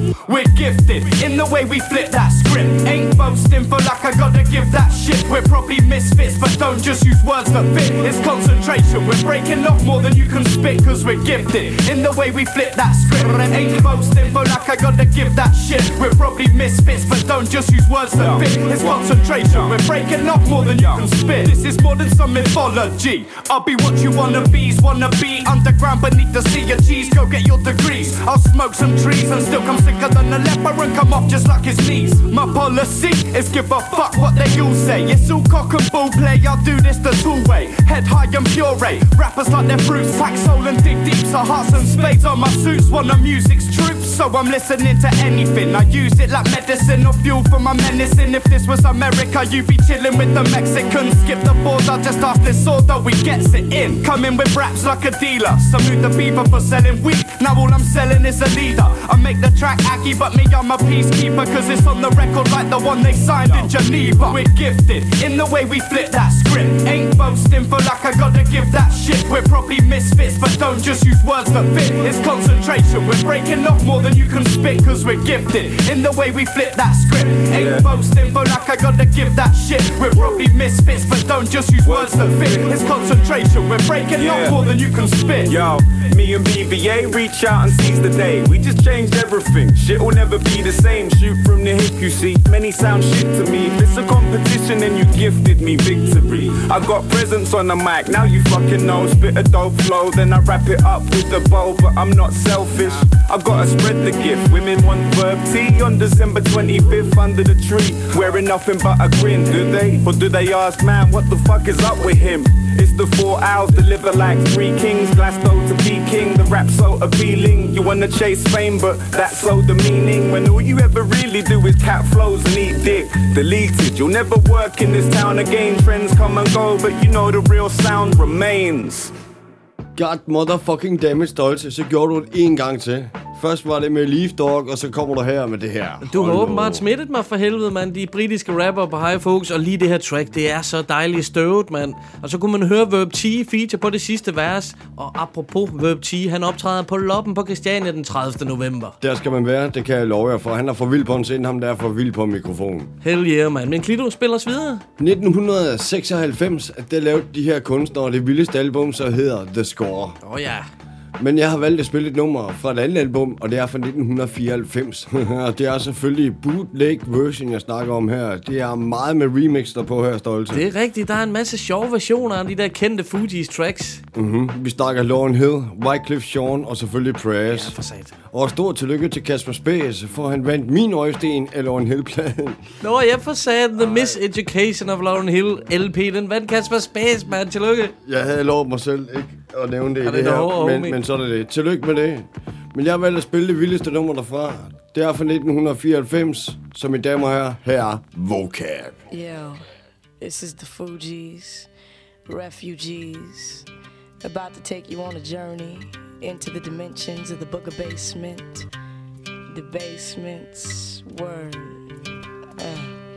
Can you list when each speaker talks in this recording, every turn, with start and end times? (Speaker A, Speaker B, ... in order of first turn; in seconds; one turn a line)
Speaker A: 0.3-85.6
Speaker B: 18.1-19.8
Speaker B: 20.4-21.1
Speaker B: 63.4-63.7
Speaker B: 77.5-77.9
Speaker B: 81.8-82.8
Speaker B: 84.1-84.7
Speaker B: 85.4-129.1
Speaker C: 129.9-136.8
Speaker D: 136.0-148.9
Speaker C: 149.0-152.9
Speaker D: 153.0-154.8
Speaker C: 155.0-160.2
Speaker D: 160.2-160.6
Speaker C: 161.2-170.6
Speaker D: 170.5-174.0
Speaker C: 174.1-177.7
Speaker D: 177.5-178.1
Speaker C: 178.3-182.6
Speaker D: 182.8-187.9
Speaker C: 183.8-184.2
Speaker C: 188.0-198.9
Speaker D: 190.0-191.0
Speaker E: 199.1-199.6
Speaker E: 200.2-201.7
Speaker E: 202.3-203.7
Speaker E: 204.2-208.7
Speaker E: 209.5-211.8
Speaker E: 212.6-212.9